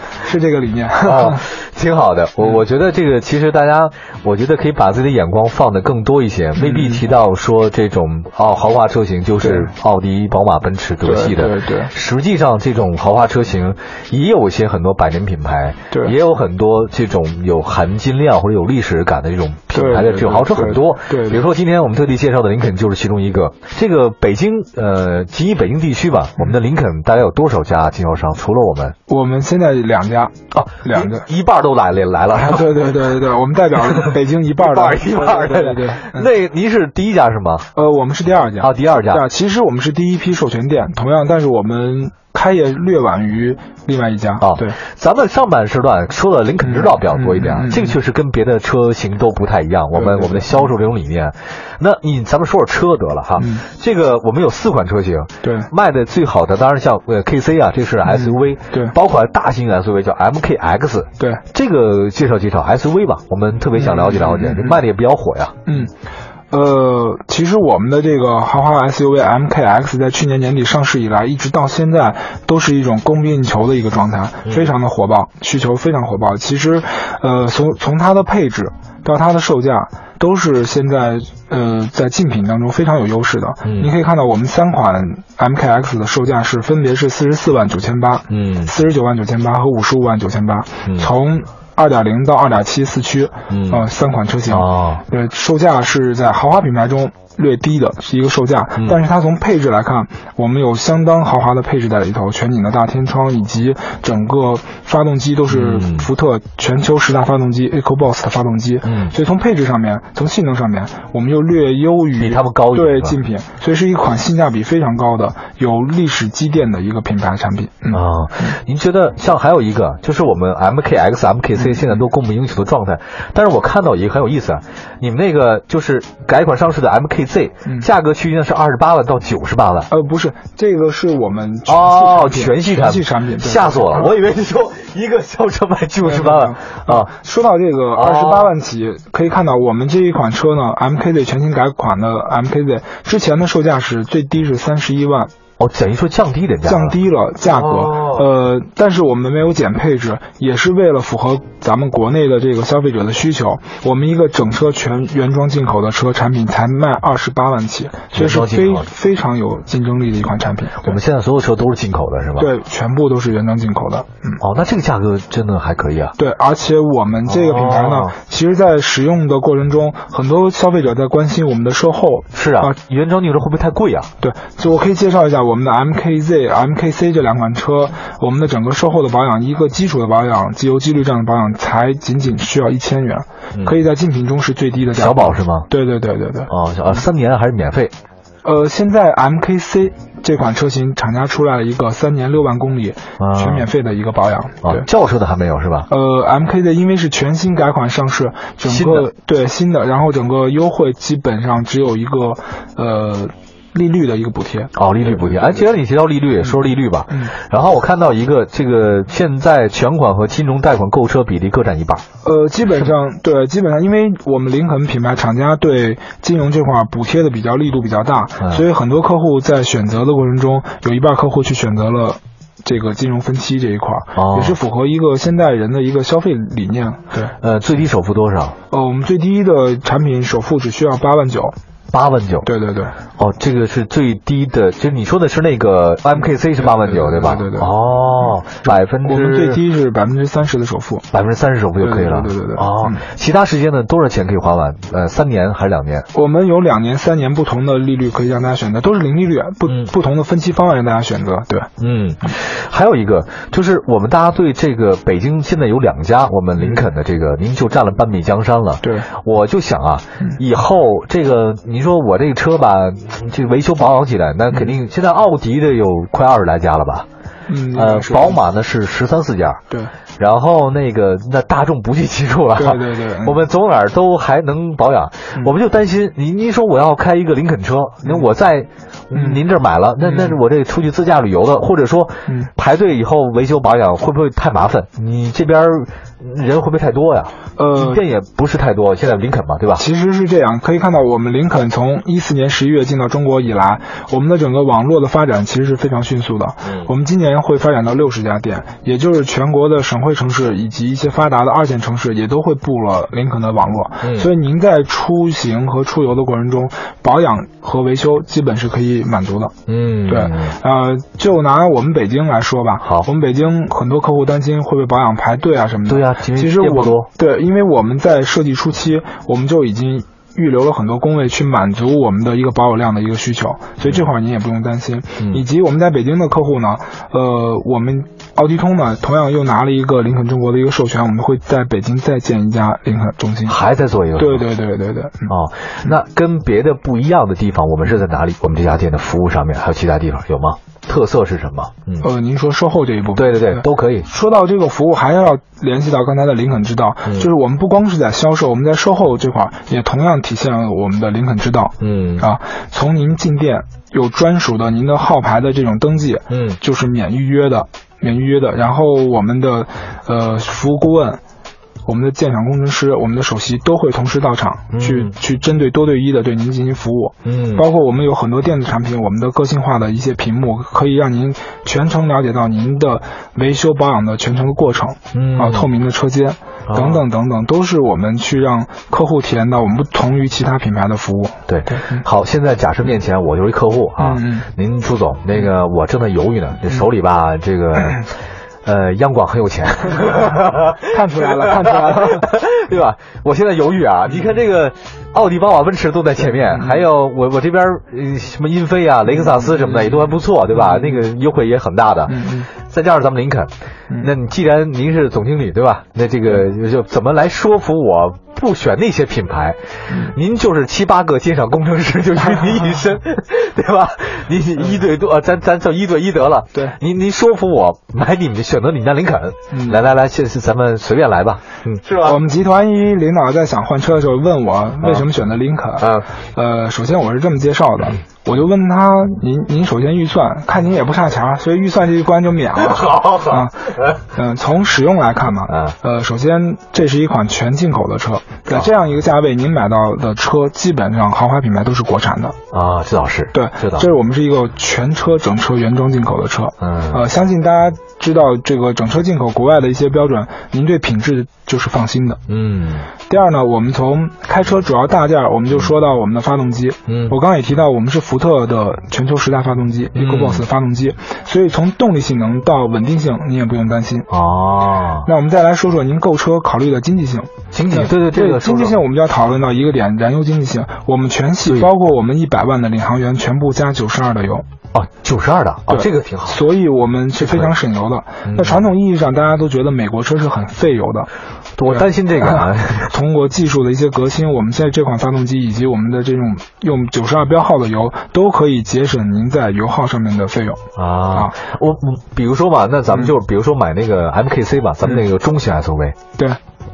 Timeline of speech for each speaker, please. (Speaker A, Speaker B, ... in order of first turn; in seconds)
Speaker A: 0.2-1.4, 6.5-7.0, 9.4-9.7, 11.0-11.9, 19.7-21.4, 29.1-31.2, 32.3-36.3, 37.7-44.8, 46.6-48.0, 49.9-50.7, 53.4-53.6, 55.4-55.7, 58.0-58.9, 63.7-64.8, 65.7-65.9, 66.5-118.5, 121.5-122.0, 129.9-134.1, 136.0-145.3, 146.6-161.0, 162.4-164.4, 166.2-172.8, 174.2-186.5, 188.4-194.9, 195.9-205.6, 212.2-227.3, 228.7-231.6, 232.4-232.9, 236.6-237.7, 238.7-241.0, 241.8-243.0, 246.1-251.7, 256.6-256.8, 258.8-259.1, 267.5-268.4, 272.6-273.4, 279.1-279.4, 280.0-280.4, 287.6-288.0, 289.8-309.5, 310.1-333.6, 334.2-335.3, 342.0-361.2, 361.9-382.1, 384.0-384.5, 390.9-392.3, 396.2-396.9, 399.1-401.0, 402.1-402.5, 409.9-410.1, 419.5-419.8, 422.0-433.6, 434.1-442.3, 443.3-452.2, 453.1-464.1, 465.0-474.4, 475.7-481.1, 481.7-490.6
Speaker B: 1.0-28.9, 30.5-32.7, 33.9-37.7, 38.6-39.2, 44.4-65.6, 74.4-74.7, 83.6-83.9, 88.3-88.7, 90.8-91.1, 93.5-93.8, 94.5-95.0, 105.5-106.1, 108.8-109.1, 112.2-113.2, 117.9-129.9, 131.7-137.1, 137.9-138.5, 145.6-148.3, 158.1-158.9, 160.8-162.5, 164.4-166.1, 167.2-168.1, 172.3-174.1, 184.9-185.7, 186.5-187.9, 193.2-193.7, 194.6-195.9, 198.6-199.1, 204.7-212.0, 224.2-224.6, 227.4-228.5, 231.9-232.5, 233.2-239.6, 241.1-246.1, 249.7-249.9, 251.8-267.1, 267.7-269.6, 270.2-289.8, 296.6-296.9, 304.0-304.3, 309.7-310.6, 312.8-313.1, 315.9-317.1, 333.5-334.4, 335.3-342.1, 343.1-344.1, 351.8-352.2, 356.3-356.6, 364.7-365.1, 367.2-367.6, 375.1-375.7, 376.7-377.0, 381.5-388.1, 388.6-422.2, 425.8-426.1, 432.7-434.0, 435.5-435.8, 442.5-443.9, 446.6-447.0, 452.3-452.9, 456.9-457.1, 459.9-460.4, 464.1-465.1, 467.5-468.8, 474.7-476.4, 477.2-477.5, 478.2-478.7, 481.6-482.9, 490.8-496.0